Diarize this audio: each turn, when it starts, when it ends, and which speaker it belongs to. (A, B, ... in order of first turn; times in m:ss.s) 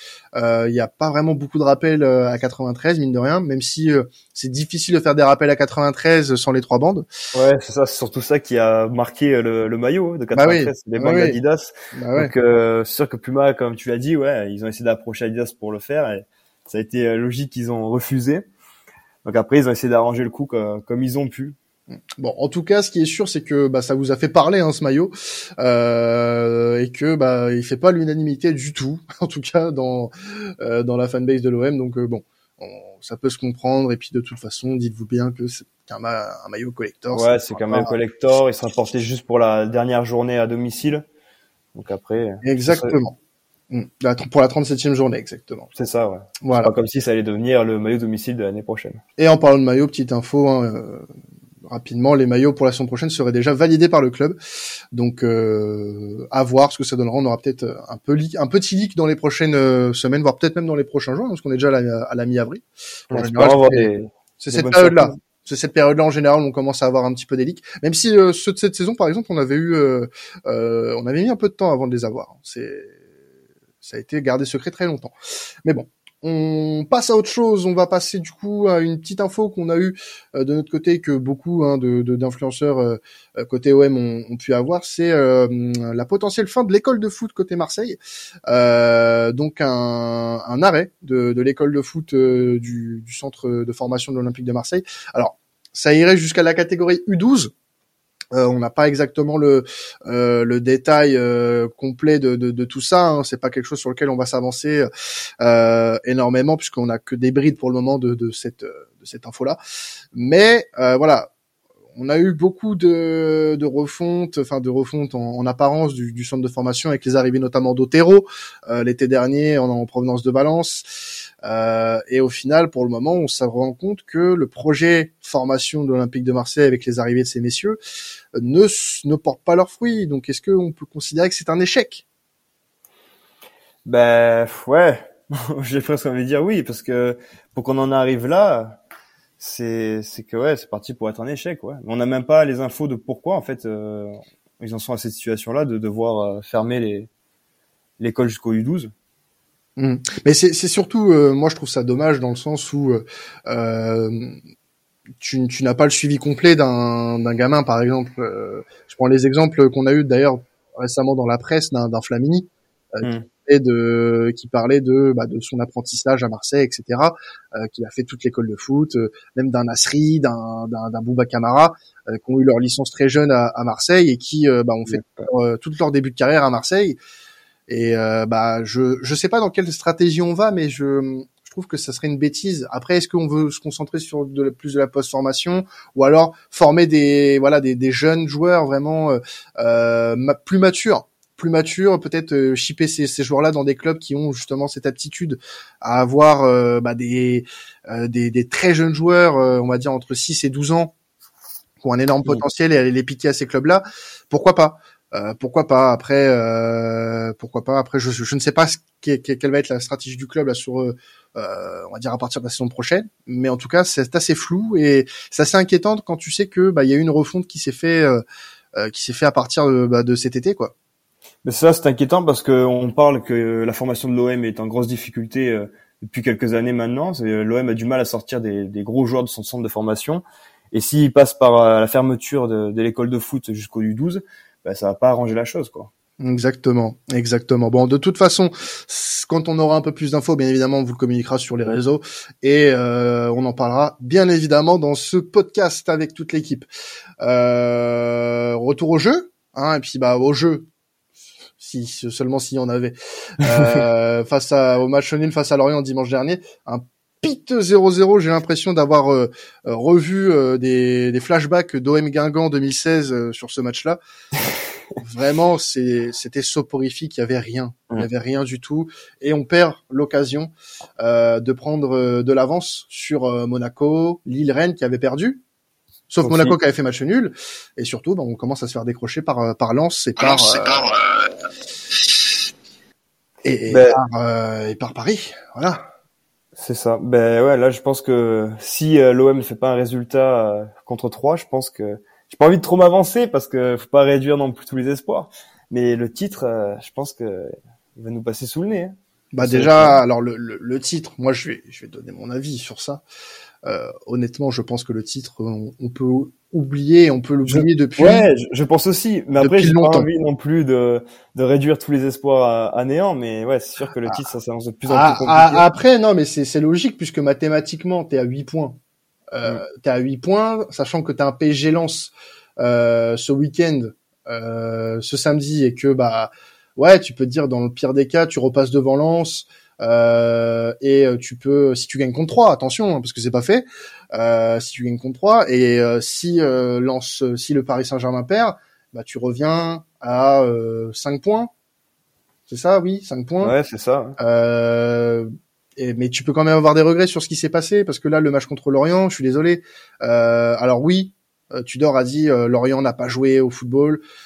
0:00.3-0:07.0 A
0:07.3-0:18.4 B
0:10.3-0:11.4 A
0:11.9-0:12.3 A
0:19.2-0:21.6 B
0:22.2-0:37.9 A
0:37.1-0:41.0 B
0:41.7-0:43.0 B
0:42.4-0:43.2 A
0:43.7-0:45.7 A
0:45.7-0:49.0 B
0:46.4-0:46.7 A
0:49.2-0:51.1 A
0:51.6-0:54.4 A
0:54.9-1:13.0 A
1:03.1-1:05.2 B
1:13.8-1:15.1 A
1:15.6-1:37.5 A
1:38.3-1:44.9 A
1:45.4-1:49.6 A
1:50.1-1:51.3 A
1:51.9-2:00.8 A
2:01.4-2:07.8 A
2:08.4-2:12.0 A
2:13.8-2:18.8 B
2:19.4-2:27.1 B
2:28.0-2:28.9 B
2:29.8-2:34.4 A
2:35.2-2:57.0 A
2:43.0-2:43.3 B
2:54.9-2:55.3 B
2:57.7-3:20.9 A
3:21.8-3:38.2 A
3:38.7-3:40.7 A
3:41.4-3:55.9 B
3:56.2-4:06.6 A
4:07.2-4:10.7 A
4:11.6-4:24.0 A
4:25.0-4:35.4 A
4:36.1-4:41.0 A
4:36.2-4:36.6 B
4:43.4-4:45.8 A
4:43.7-4:44.0 B
4:46.6-5:00.0 B
4:59.3-5:03.0 A
5:03.6-5:08.2 A
5:07.5-5:15.6 B
5:09.4-5:10.1 A
5:14.8-5:18.8 A
5:19.3-5:41.5 A
5:42.5-5:43.5 A
5:43.4-5:44.2 B
5:44.2-5:54.0 A